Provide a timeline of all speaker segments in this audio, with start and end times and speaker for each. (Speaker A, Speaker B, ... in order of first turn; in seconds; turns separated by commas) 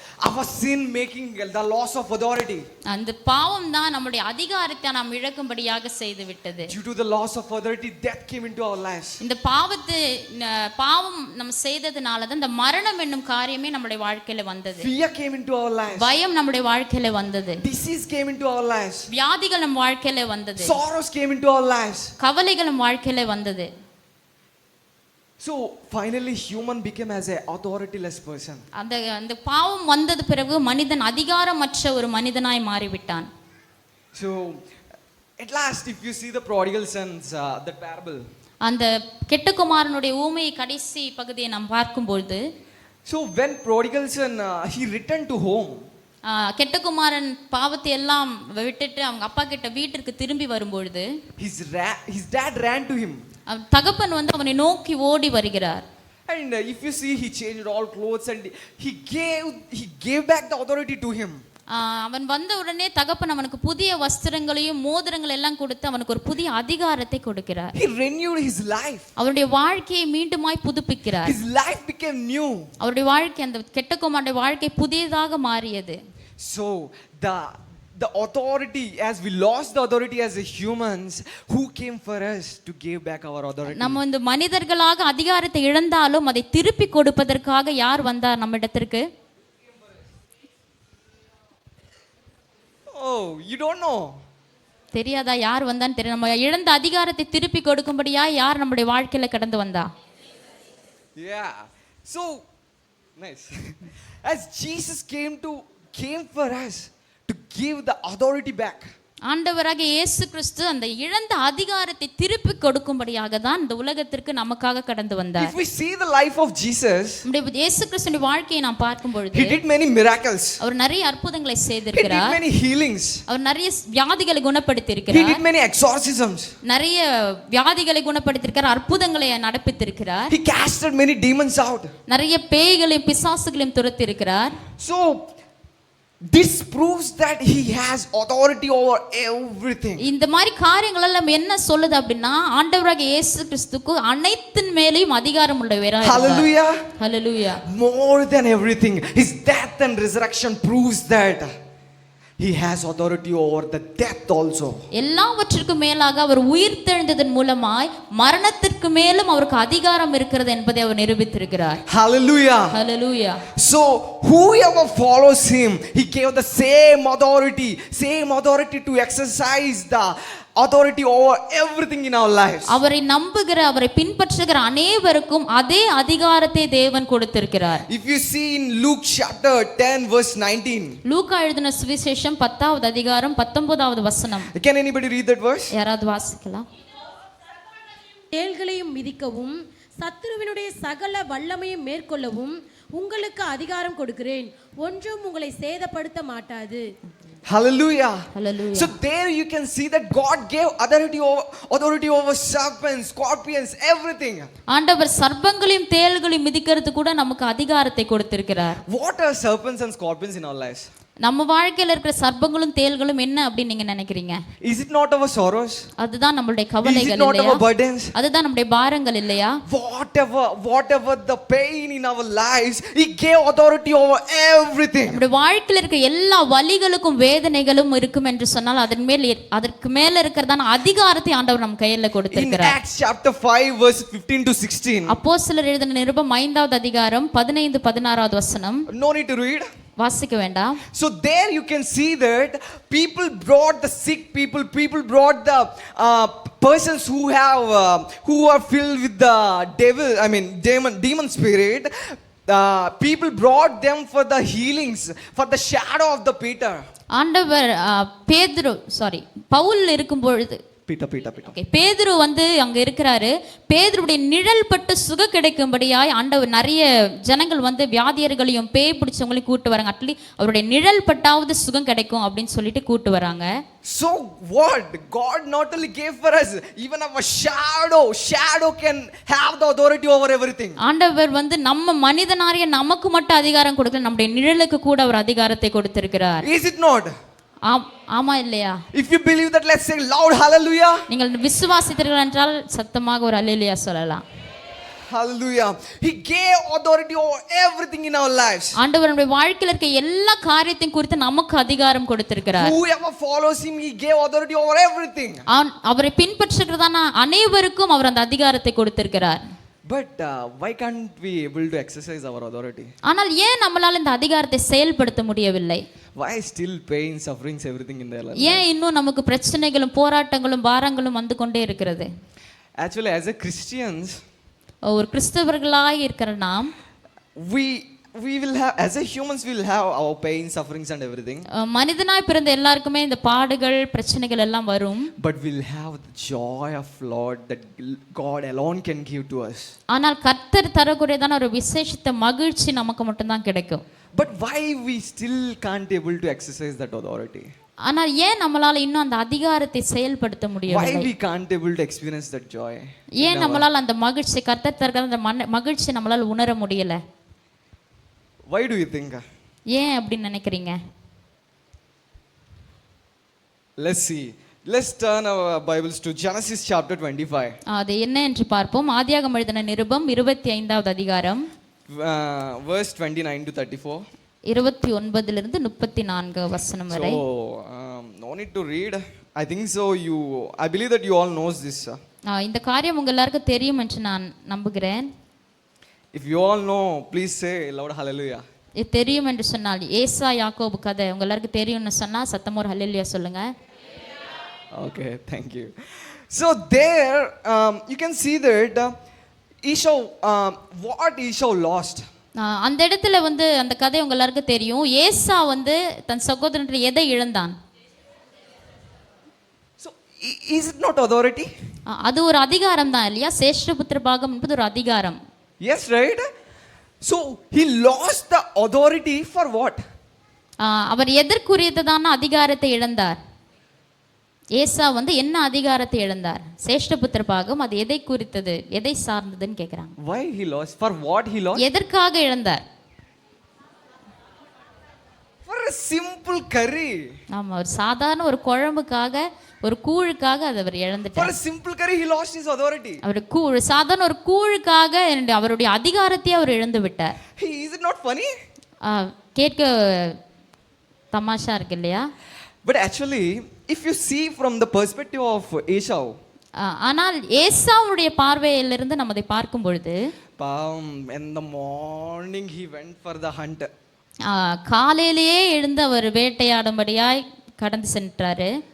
Speaker A: 0.2-2.6, Speaker B: 2.9-6.7, Speaker A: 6.7-9.2, Speaker B: 9.2-14.9, Speaker A: 14.8-16.1, Speaker B: 15.9-17.6, Speaker A: 17.6-19.1, Speaker B: 19.1-20.8, Speaker A: 20.6-22.1, Speaker B: 22.2-23.7, Speaker A: 25.4-28.6, Speaker B: 28.7-33.3, Speaker A: 34.1-34.6, Speaker A: 35.4-38.2, Speaker B: 38.6-42.4, Speaker A: 43.0-45.9, Speaker B: 46.2-51.1, Speaker A: 51.4-53.2, Speaker B: 53.5-55.9, Speaker A: 56.3-61.4, Speaker B: 61.7-67.7, Speaker A: 67.7-69.1, Speaker B: 69.2-71.4, Speaker A: 71.2-72.7, Speaker B: 72.8-76.0, Speaker A: 76.4-84.0, Speaker B: 83.7-89.1, Speaker A: 92.9-94.2, Speaker B: 94.9-99.9, Speaker A: 101.2-102.4, Speaker A: 103.2-108.9, Speaker B: 109.3-115.5, Speaker A: 115.4-117.2, Speaker B: 117.2-119.6, Speaker A: 119.3-120.6, Speaker B: 120.6-122.4, Speaker A: 121.9-123.2, Speaker B: 123.3-125.4, Speaker A: 125.1-126.5, Speaker B: 126.6-130.3, Speaker A: 130.3-131.9, Speaker B: 132.1-134.6, Speaker A: 134.8-135.3, Speaker A: 136.2-140.0, Speaker B: 140.0-147.6, Speaker A: 146.0-146.9, Speaker A: 147.6-151.5, Speaker A: 152.4-154.8, Speaker B: 154.9-161.8, Speaker A: 161.9-162.8, Speaker B: 162.7-163.4, Speaker A: 163.5-172.7, Speaker B: 172.7-177.8, Speaker A: 177.9-181.0, Speaker B: 181.1-184.5, Speaker A: 184.5-185.7, Speaker B: 185.7-186.7, Speaker C: 187.5-196.8, Speaker A: 197.4-204.5, Speaker B: 198.3-198.9, Speaker B: 204.7-208.8, Speaker A: 208.8-210.9, Speaker B: 211.2-214.4, Speaker A: 214.6-215.9, Speaker B: 216.0-217.6, Speaker A: 216.8-218.1, Speaker B: 218.1-219.6, Speaker A: 219.7-225.2, Speaker B: 225.1-232.8, Speaker A: 232.3-235.2, Speaker B: 235.1-238.9, Speaker A: 238.9-239.7, Speaker B: 240.0-240.8, Speaker A: 240.9-256.9, Speaker B: 257.1-260.6, Speaker A: 260.9-261.5, Speaker B: 261.5-273.5, Speaker A: 273.8-280.8, Speaker B: 280.8-286.4, Speaker A: 286.4-287.1, Speaker B: 287.6-288.8, Speaker A: 288.9-291.0, Speaker B: 291.1-294.2, Speaker A: 295.1-298.8, Speaker B: 298.8-302.7, Speaker A: 302.5-305.4, Speaker B: 305.5-309.4, Speaker A: 309.9-312.9, Speaker B: 313.0-315.8, Speaker A: 316.2-318.6, Speaker B: 318.4-322.1, Speaker A: 322.8-324.2, Speaker B: 324.9-326.7, Speaker A: 327.4-331.4, Speaker B: 331.5-335.1, Speaker A: 335.2-339.7, Speaker B: 339.9-343.8, Speaker A: 344.1-347.5, Speaker B: 347.9-351.1, Speaker A: 350.7-353.6, Speaker B: 353.2-357.0, Speaker A: 358.5-359.2, Speaker B: 359.7-360.8, Speaker A: 363.8-367.6, Speaker B: 367.7-371.4, Speaker A: 371.9-374.1, Speaker B: 374.5-377.2, Speaker A: 376.9-382.0, Speaker B: 382.3-385.1, Speaker A: 386.1-388.4, Speaker B: 388.8-393.5, Speaker A: 394.7-399.0, Speaker A: 399.6-402.1, Speaker B: 402.4-407.6, Speaker A: 409.8-411.5, Speaker B: 411.9-415.2, Speaker A: 415.6-416.3, Speaker A: 417.0-419.8, Speaker B: 420.6-423.2, Speaker B: 424.6-429.9, Speaker A: 430.0-431.6, Speaker B: 431.6-432.6, Speaker A: 435.4-437.2, Speaker B: 437.3-441.3, Speaker A: 441.1-443.0, Speaker B: 443.0-447.1, Speaker A: 447.4-448.3, Speaker B: 448.8-450.2, Speaker B: 451.1-452.1, Speaker A: 452.6-456.2, Speaker B: 456.6-460.0, Speaker A: 460.4-463.7, Speaker B: 464.2-468.5